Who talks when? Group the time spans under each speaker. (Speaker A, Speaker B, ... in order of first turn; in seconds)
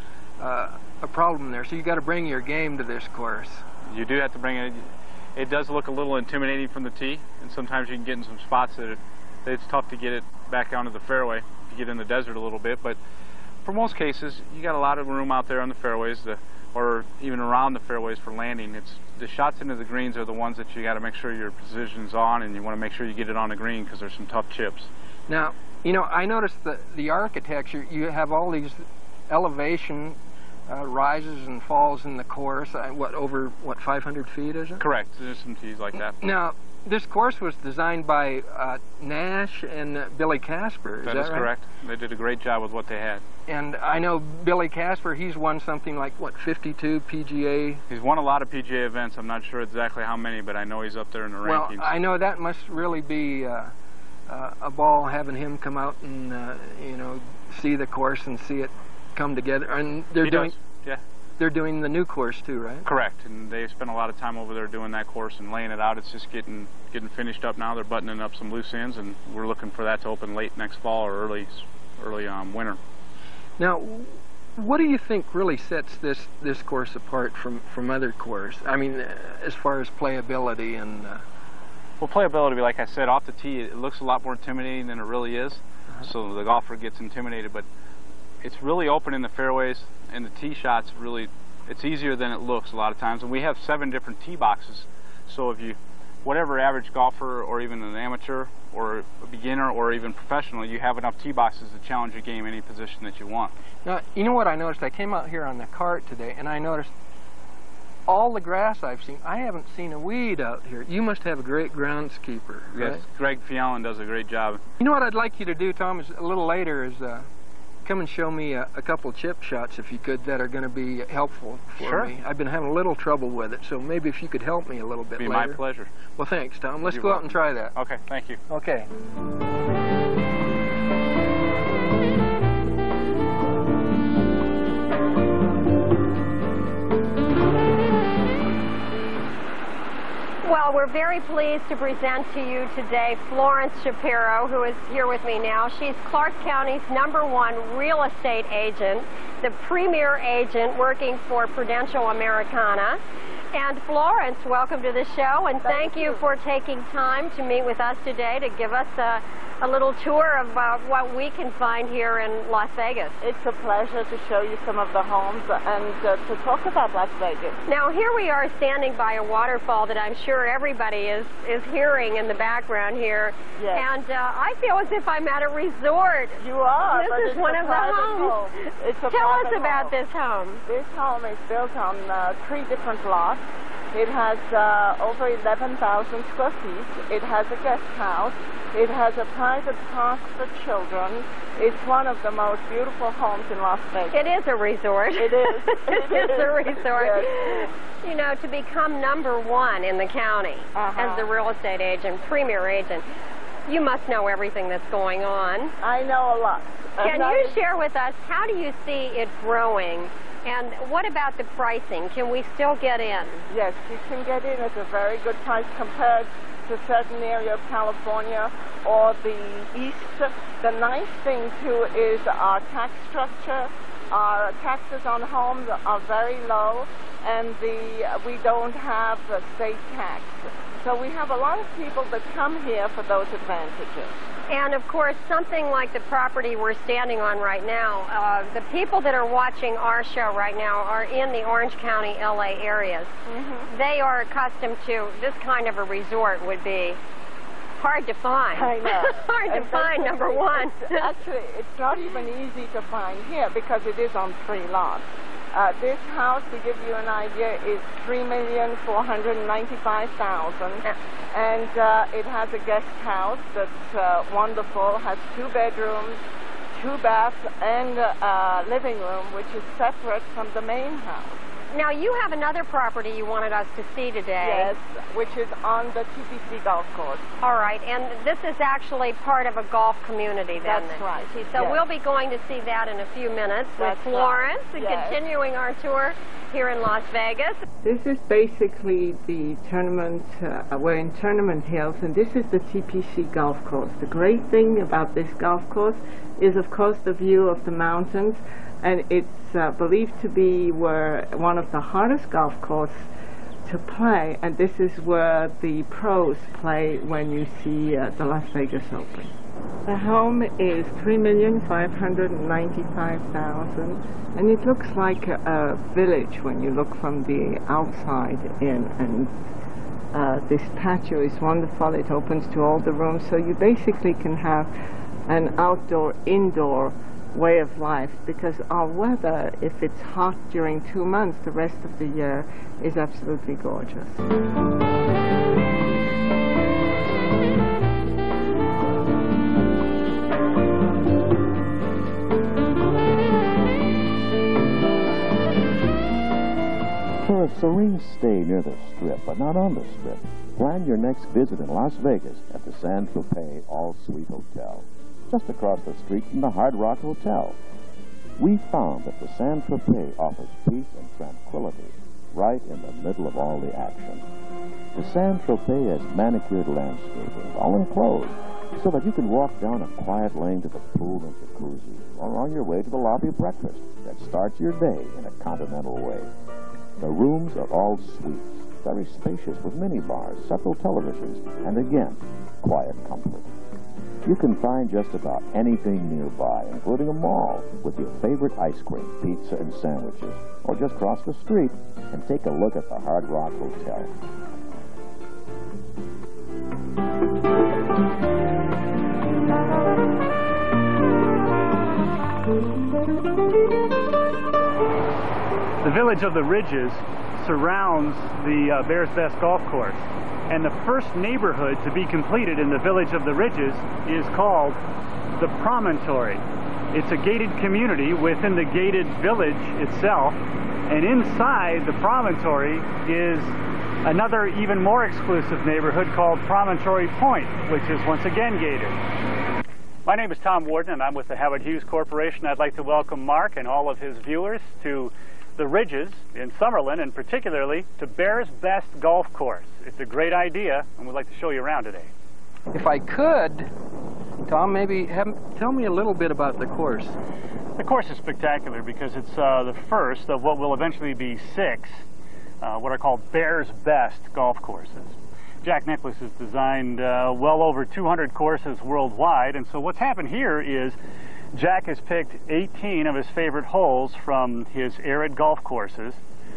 Speaker A: 0.4-3.6, 25.3-34.9, 36.2-41.5, 43.5-47.8, 51.4-53.7, 54.3-60.6, 61.4-62.9, 73.6-81.2, 103.8-106.9, 108.1-113.0, 114.8-117.3, 117.8-125.6, 126.1-127.7, 128.5-128.9, 442.7-443.7, 444.4-447.2
Speaker B: 3.9-13.0, 13.6-24.9, 34.8-36.2, 41.0-43.2, 47.9-51.9, 60.2-61.0, 62.9-72.8, 82.0-87.7, 88.4-103.5, 112.7-114.6, 121.8-122.1, 125.2-125.9, 126.8-128.4
Speaker C: 140.4-153.0, 153.5-163.2, 167.7-178.5, 179.1-180.6, 194.1-203.0, 203.7-205.7, 207.0-213.4, 234.5-243.1, 243.7-247.0, 247.8-251.1, 271.7-274.7, 277.4-287.6
Speaker D: 155.6-156.2, 163.2-167.6, 173.6-173.9, 176.4-180.0, 180.7-194.3, 195.2-197.7, 200.8-201.3, 205.8-207.6, 213.5-234.2, 243.3-243.7, 248.5-266.2, 266.7-271.4, 274.4-277.2, 280.6-281.8, 283.8-285.2, 287.8-303.1, 303.6-309.3, 309.9-319.3, 320.1-324.7, 325.3-334.2
Speaker E: 347.2-357.6, 358.4-364.2, 364.9-376.3, 377.0-383.5, 384.2-394.1
Speaker F: 405.8-414.8, 415.4-416.4, 416.9-420.4, 420.9-429.0, 430.0-442.1, 447.8-452.0, 452.6-461.0, 461.5-466.2